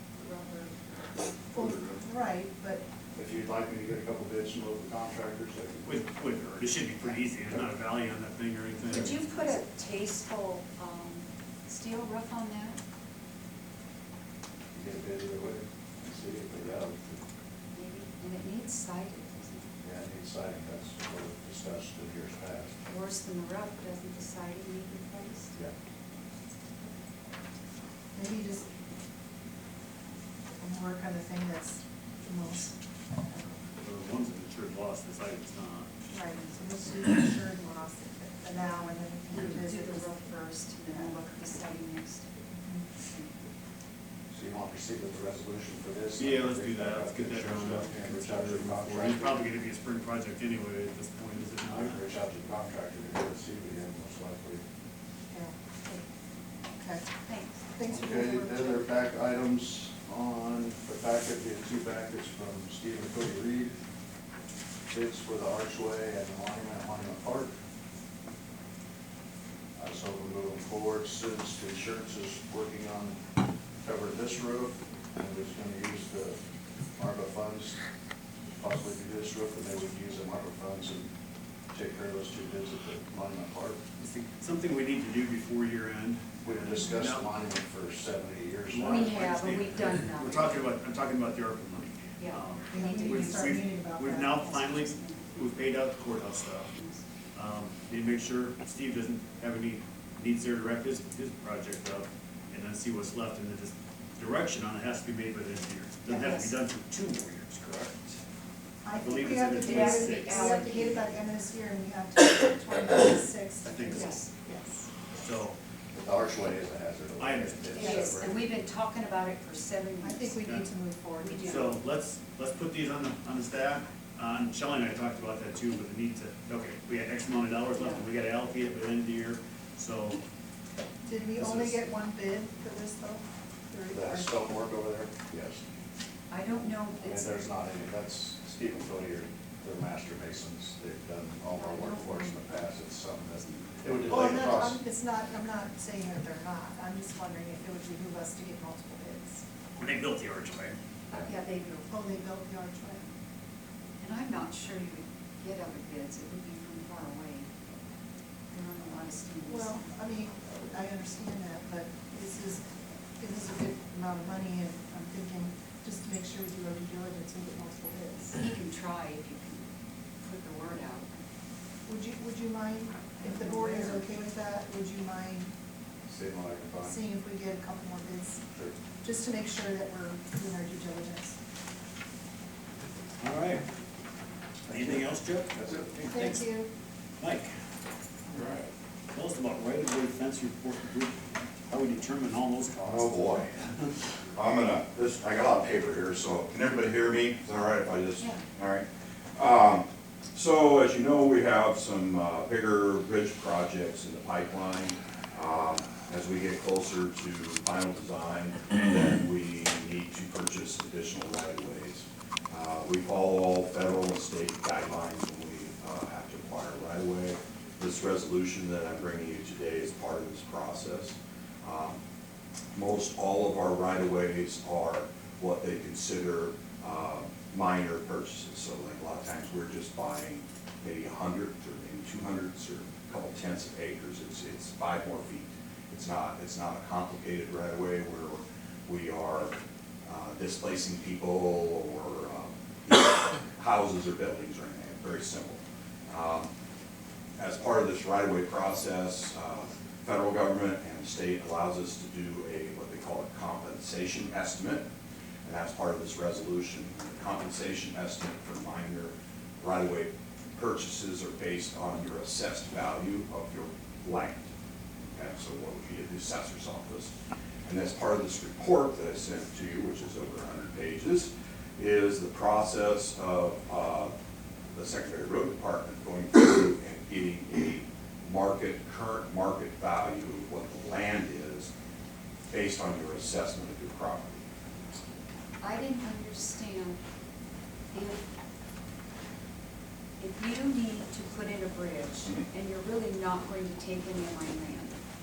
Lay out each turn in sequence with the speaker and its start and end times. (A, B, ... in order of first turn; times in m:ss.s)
0:00.1-0:00.8 A
0:01.5-0:02.8 B
0:01.6-0:02.0 C
0:03.1-0:06.1 C
0:05.8-0:09.2 D
0:08.9-0:12.8 A
0:14.7-0:17.2 C
0:17.7-0:19.7 A
0:19.8-0:22.8 C
0:22.9-0:25.6 A
0:28.2-0:28.7 B
0:30.6-0:32.8 B
0:33.3-0:33.6 B
0:33.8-0:35.9 D
0:36.1-0:41.2 B
0:39.3-0:42.3 A
0:42.5-0:42.9 B
0:43.0-0:43.3 A
0:44.3-0:49.4 C
0:46.2-0:52.0 D
0:51.7-0:54.6 C
0:55.3-0:56.0 B
0:56.8-0:57.1 B
0:57.3-0:58.8 A
0:57.8-0:58.6 B
0:57.9-1:03.8 C
1:04.9-1:07.6 C
1:09.8-1:13.2 C
1:13.8-1:16.4 C
1:17.0-1:17.8 C
1:18.5-1:21.1 C
1:21.7-1:23.8 C
1:24.0-1:27.3 D
1:26.4-1:29.2 C
1:28.7-1:36.7 D
1:28.8-1:30.6 A
1:32.2-1:33.6 A
1:32.7-1:34.5 B
1:34.4-1:35.5 A
1:36.5-1:37.0 A
1:37.3-1:48.1 D
1:46.1-1:46.5 A
1:48.8-1:54.9 B
1:48.9-1:50.6 D
1:49.6-1:51.2 A
1:53.7-1:54.1 D
1:53.9-1:54.3 A
1:55.1-1:55.6 D
1:55.9-1:58.5 C
1:57.2-1:58.0 D
1:57.8-2:00.4 A
2:00.0-2:01.7 B
2:00.4-2:00.7 D
2:01.2-2:01.7 A
2:01.4-2:10.2 D
2:07.7-2:08.0 A
2:11.0-2:14.4 B
2:11.4-2:11.8 D
2:13.9-2:15.6 C
2:16.3-2:17.3 A
2:17.0-2:24.8 C
2:21.5-2:22.6 A
2:23.4-2:23.7 A
2:24.1-2:29.4 B
2:29.8-2:30.8 D
2:31.1-2:32.0 A
2:31.9-2:33.1 B
2:34.0-2:37.5 A
2:38.5-2:39.8 A
2:39.4-2:42.7 B
2:43.2-2:48.4 B
2:48.3-2:49.6 A
2:50.2-2:51.2 A
2:51.9-2:55.5 B
2:53.2-2:54.1 A
2:56.1-2:57.0 C
2:56.8-2:58.4 B
2:58.5-2:58.8 C
2:59.0-3:01.4 B
3:03.2-3:03.6 D
3:04.6-3:06.4 D
3:04.7-3:05.9 C
3:06.0-3:06.7 B
3:07.2-3:07.5 D
3:08.3-3:08.6 E
3:08.4-3:08.7 A
3:09.1-3:13.9 D
3:12.8-3:13.5 E
3:14.4-3:42.0 E
3:18.2-3:18.4 A
3:42.8-3:59.5 E
4:00.1-4:06.5 E
4:07.4-4:14.8 E
4:15.4-4:24.5 E
4:25.1-4:27.1 E
4:27.7-4:34.1 E
4:34.7-4:41.7 E
4:42.5-4:44.4 E
4:45.6-4:47.0 A
4:47.9-4:48.2 A
4:50.2-4:55.0 A